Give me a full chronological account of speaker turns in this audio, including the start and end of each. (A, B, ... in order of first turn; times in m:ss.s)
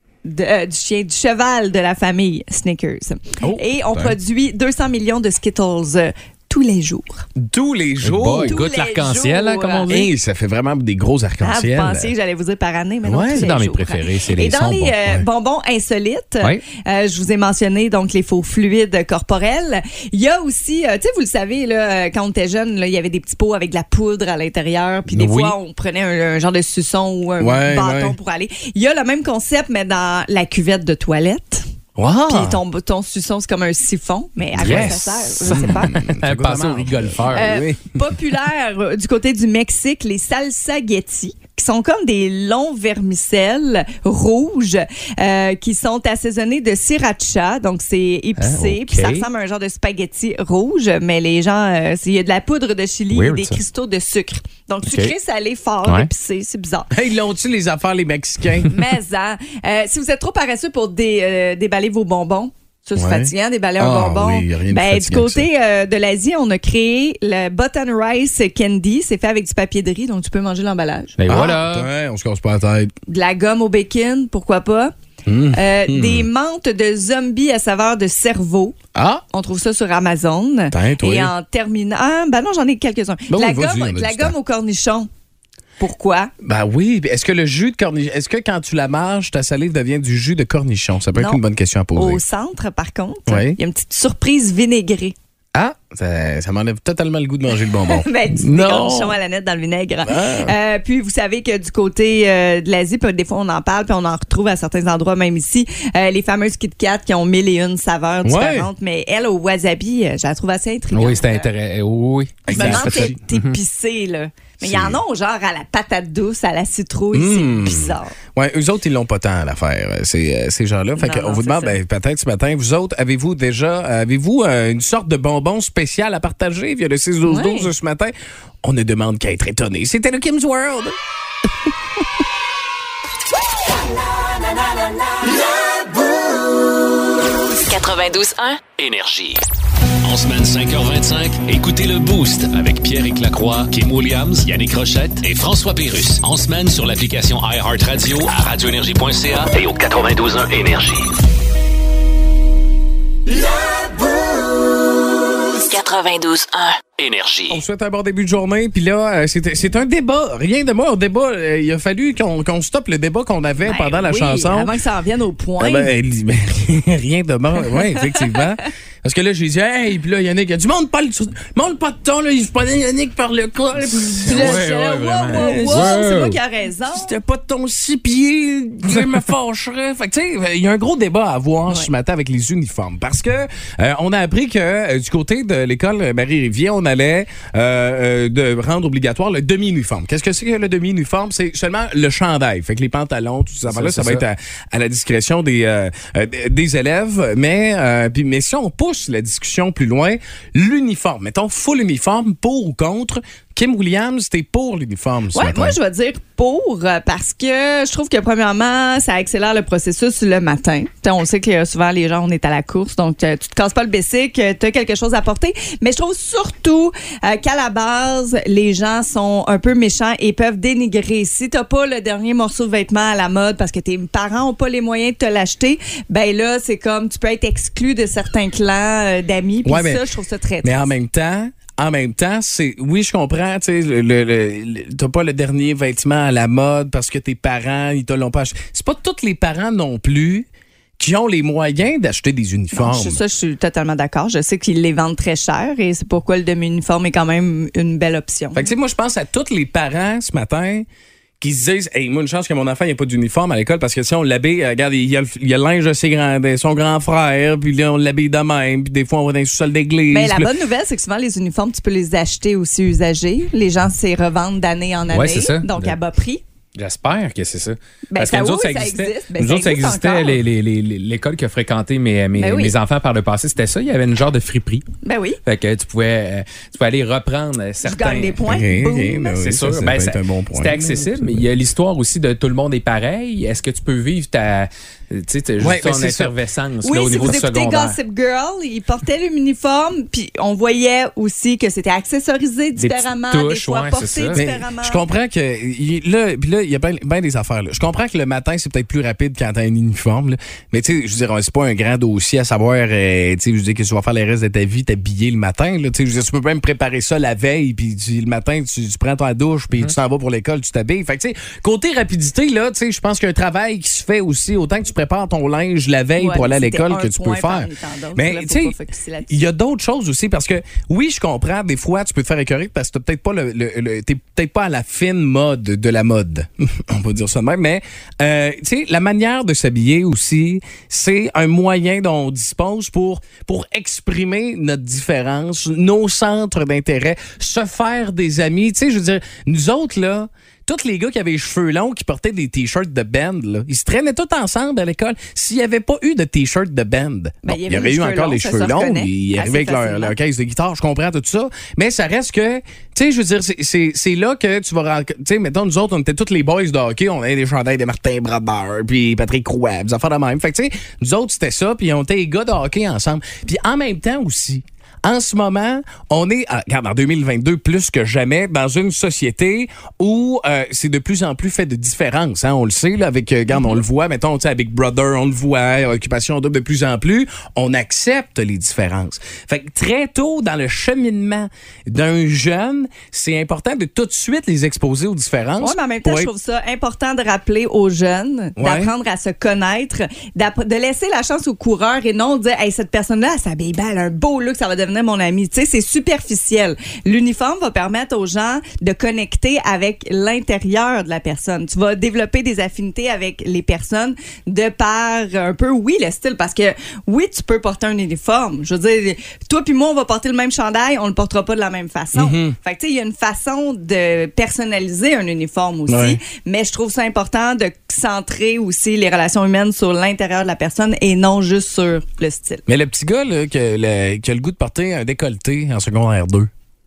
0:00.2-0:07.3 A
0:03.4-0:04.2 B
0:07.4-0:08.6 B
0:08.0-0:10.1 C
0:08.4-0:09.9 A
0:09.9-0:12.1 B
0:11.4-0:31.6 A
0:13.0-0:13.5 B
0:13.3-0:15.0 C
0:25.1-0:25.5 C
0:27.4-0:28.2 B
0:32.0-0:32.6 B
0:32.3-0:36.0 A
0:34.5-0:38.1 B
0:34.6-0:37.6 C
0:37.3-0:56.9 A
0:48.6-0:49.3 C
0:53.1-0:53.6 C
0:54.8-0:55.1 C
0:56.9-0:58.8 B
0:58.7-1:11.2 A
1:03.0-1:05.5 B
1:11.2-1:11.9 C
1:11.3-1:12.9 B
1:13.1-1:14.9 A
1:15.2-1:16.3 B
1:15.5-1:18.8 A
1:18.9-1:19.2 B
1:19.3-1:25.1 A
1:20.7-1:21.3 B
1:23.3-1:24.3 B
1:25.8-1:26.3 A
1:26.4-1:32.2 B
1:31.1-1:31.4 A
1:31.9-1:35.1 A
1:33.3-1:33.6 B
1:35.5-1:38.1 B
1:37.7-1:51.5 A
1:38.5-1:38.9 C
1:38.6-1:39.0 B
1:40.0-1:40.5 B
1:48.2-1:48.7 B
1:50.9-1:53.6 C
1:52.5-1:53.2 B
1:52.5-1:58.1 A
1:54.6-1:55.0 B
1:57.1-2:11.0 B
2:01.0-2:01.8 A
2:07.2-2:07.7 A
2:17.6-2:18.6 D
2:18.8-2:19.4 E
2:20.0-2:31.1 E
2:35.7-2:36.8 D
2:37.0-2:37.6 E
2:37.5-2:44.7 B
2:43.6-2:45.9 A
2:45.6-2:54.6 B
2:48.2-2:48.4 A
2:54.2-2:56.4 C
2:54.2-2:57.1 A
2:55.3-2:56.1 B
2:56.9-3:25.8 B
3:13.7-3:14.2 C
3:25.3-3:50.9 A
3:49.6-3:50.0 B
3:50.6-4:00.5 B
4:01.0-4:03.2 B
4:02.7-4:08.7 A
4:08.5-4:10.9 B
4:11.4-4:20.5 B
4:20.1-4:26.4 A
4:25.1-4:26.0 C
4:26.8-4:34.8 C
4:28.1-4:30.4 A
4:32.4-4:32.7 A
4:35.0-4:35.4 A
4:35.4-4:38.4 C
4:37.8-4:39.4 A
4:38.4-4:41.3 B
4:39.4-4:48.0 C
4:45.6-4:46.3 B
4:46.8-4:55.0 A
4:52.8-4:54.4 C
4:54.3-5:18.8 B
5:16.2-5:19.4 A
5:19.3-6:26.3 B
5:47.4-5:50.1 A
6:25.6-7:02.6 A
6:28.6-6:28.9 B
6:52.1-6:52.5 B
6:55.9-6:56.2 B
7:02.7-7:06.5 B